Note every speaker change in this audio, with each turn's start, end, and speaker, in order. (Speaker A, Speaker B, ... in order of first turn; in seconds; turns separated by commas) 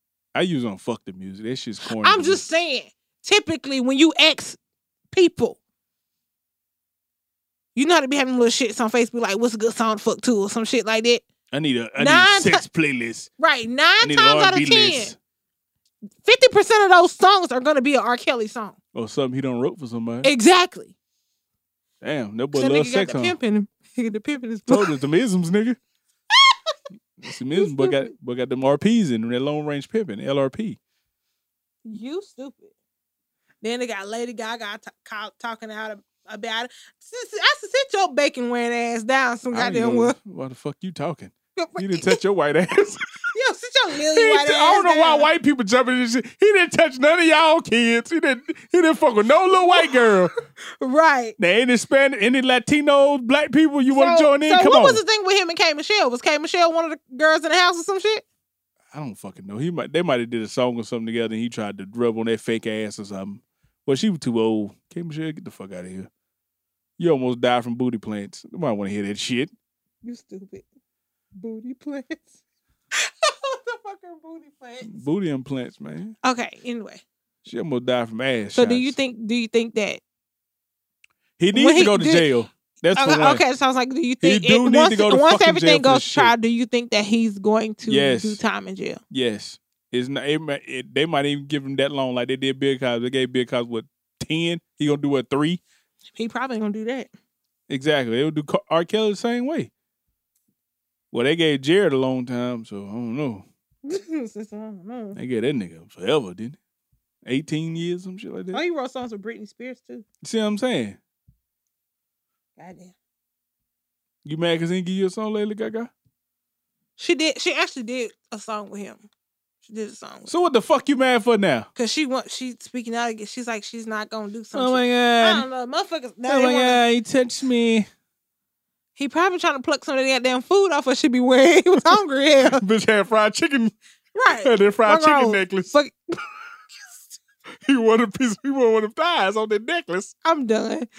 Speaker A: 0.3-2.4, Speaker B: 1.9-4.6, Speaker B: 5.1-5.6, Speaker B: 7.7-11.2, Speaker A: 11.5-13.3, Speaker B: 12.0-12.6, Speaker B: 13.4-15.1, Speaker A: 14.0-15.2, Speaker B: 16.2-18.8, Speaker A: 18.9-20.3, Speaker B: 20.2-20.9, Speaker A: 22.0-23.4, Speaker B: 22.5-24.9, Speaker A: 24.7-25.8, Speaker B: 26.5-26.7, Speaker A: 27.2-30.8, Speaker B: 27.5-28.1, Speaker B: 31.9-32.7, Speaker B: 33.6-40.1, Speaker A: 39.5-43.0, Speaker B: 41.5-42.2, Speaker B: 43.3-45.3, Speaker A: 44.1-50.3, Speaker B: 49.5-51.4, Speaker A: 51.4-55.0, Speaker B: 53.9-58.2, Speaker A: 58.9-66.1, Speaker A: 67.0-69.5, Speaker B: 70.0-70.6, Speaker B: 71.3-72.3, Speaker B: 73.0-74.9, Speaker A: 74.8-76.2, Speaker B: 76.2-77.0, Speaker A: 77.4-79.0, Speaker B: 78.5-80.0, Speaker A: 81.4-83.4, Speaker B: 81.5-82.3, Speaker B: 82.9-89.0, Speaker A: 84.2-86.3, Speaker A: 87.8-88.4, Speaker A: 89.1-95.6, Speaker B: 96.1-97.1, Speaker A: 97.7-99.7, Speaker A: 101.1-103.4, Speaker B: 103.8-105.2, Speaker A: 105.1-106.6, Speaker A: 107.2-108.6, Speaker B: 108.5-110.0, Speaker A: 110.2-111.0, Speaker B: 112.6-112.9, Speaker A: 114.2-115.9, Speaker B: 117.0-119.1, Speaker B: 119.6-120.3, Speaker A: 120.3-121.7, Speaker B: 121.8-126.8, Speaker A: 124.5-125.5, Speaker A: 126.2-127.9, Speaker B: 128.9-132.6, Speaker A: 132.5-133.7, Speaker B: 134.1-135.9, Speaker A: 134.4-135.7, Speaker A: 137.6-140.1, Speaker B: 140.2-140.9